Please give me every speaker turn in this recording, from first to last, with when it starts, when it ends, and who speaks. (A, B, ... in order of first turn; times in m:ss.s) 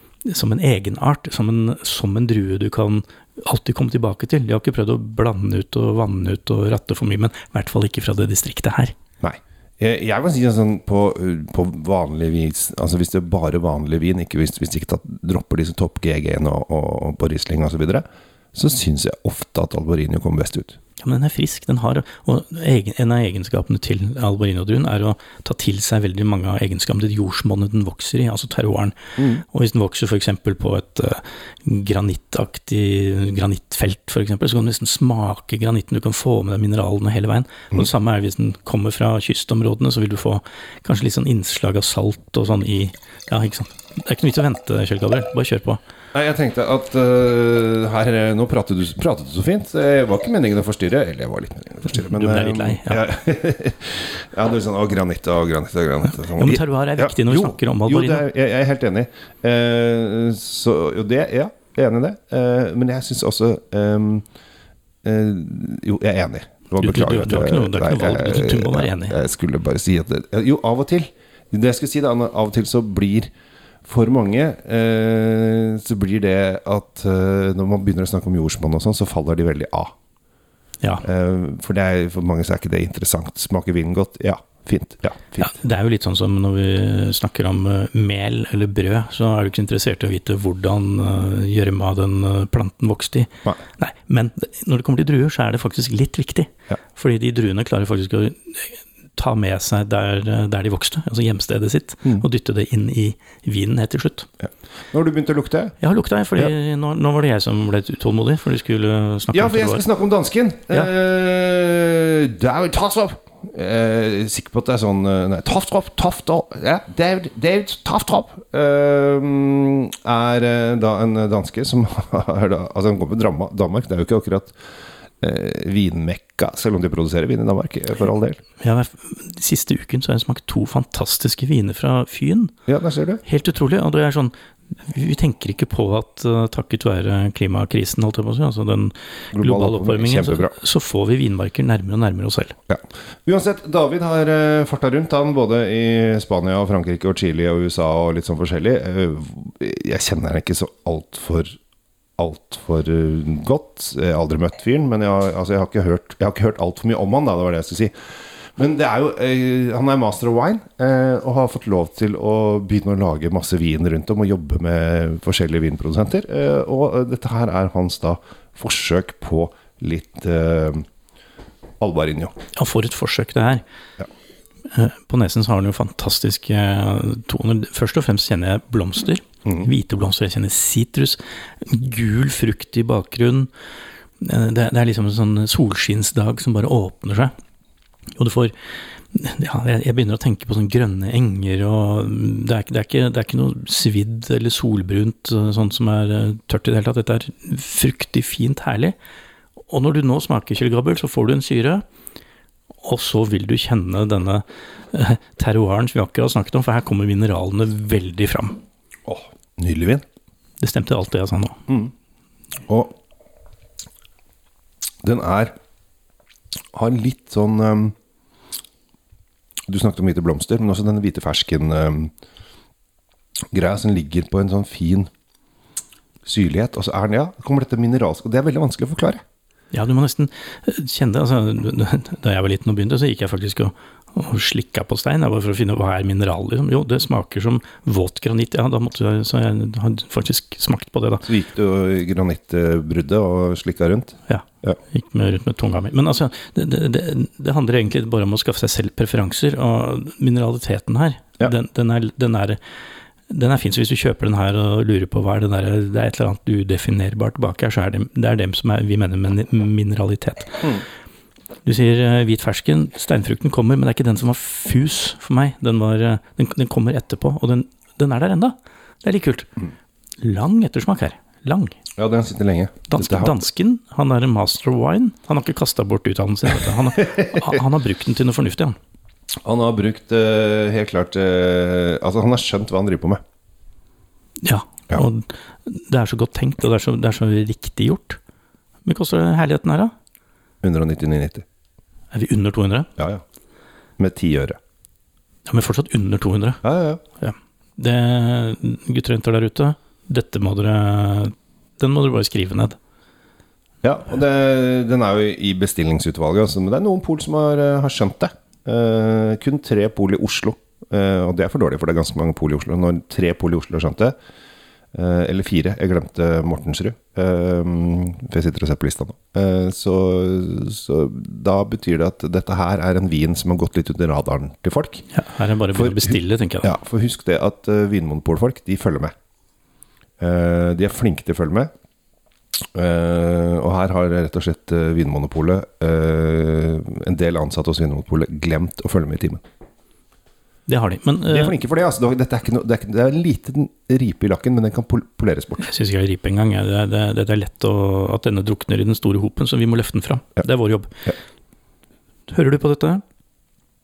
0:00.2-0:08.9 A
0:09.2-0:20.8 B
0:21.0-0:45.8 A
0:29.2-0:29.4 B
0:46.1-1:04.2 B
0:51.9-0:53.0 A
0:56.2-0:58.2 A
1:05.0-1:13.3 B
1:06.8-1:09.2 A
1:13.8-1:19.9 B
1:21.0-1:25.5 B
1:25.4-1:44.3 A
1:44.4-1:45.7 B
1:45.8-1:49.8 A
1:49.3-2:04.6 B
2:05.2-2:08.4 B
2:08.6-2:12.5 A
2:12.7-2:13.2 B
2:13.2-2:14.3 A
2:14.8-2:22.6 A
2:19.3-2:20.6 B
2:22.7-2:31.6 B
2:32.2-2:37.9 B
2:38.6-2:50.8 B
2:51.8-2:52.3 B
2:52.5-2:53.6 A
2:54.7-3:03.5 A
3:04.2-3:07.3 A
3:08.2-3:08.5 A
3:09.1-3:18.9 A
3:19.7-3:21.8 A
3:22.8-3:28.6 A
3:29.1-3:30.0 B
3:30.6-3:31.6 A
3:32.7-3:32.9 B
3:35.0-3:35.5 B
3:36.7-3:37.9 B
3:39.7-3:42.1 B
3:43.5-3:45.1 B
3:46.2-3:49.2 B
3:49.7-4:01.3 A
4:01.2-4:04.8 B
4:04.3-4:12.6 A
4:13.3-4:20.8 A
4:21.6-4:29.5 A
4:30.2-4:31.8 A
4:32.0-4:33.4 B
4:32.9-4:38.8 A
4:39.4-4:43.2 B
4:44.4-4:48.2 A
4:48.8-4:49.9 A
4:50.6-4:51.4 B
4:52.1-4:52.9 A
4:53.0-4:53.2 B
4:54.0-4:54.6 B
4:55.5-4:56.6 A
4:56.6-4:57.0 B
4:57.2-5:02.8 A
5:03.8-5:14.1 B
5:14.9-5:25.0 B
5:25.1-5:26.7 A
5:25.7-5:29.1 B
5:30.2-5:31.7 B
5:32.7-5:39.4 B
5:40.7-5:41.6 A
5:41.2-5:45.7 B
5:45.6-5:50.9 A
5:52.3-5:53.0 A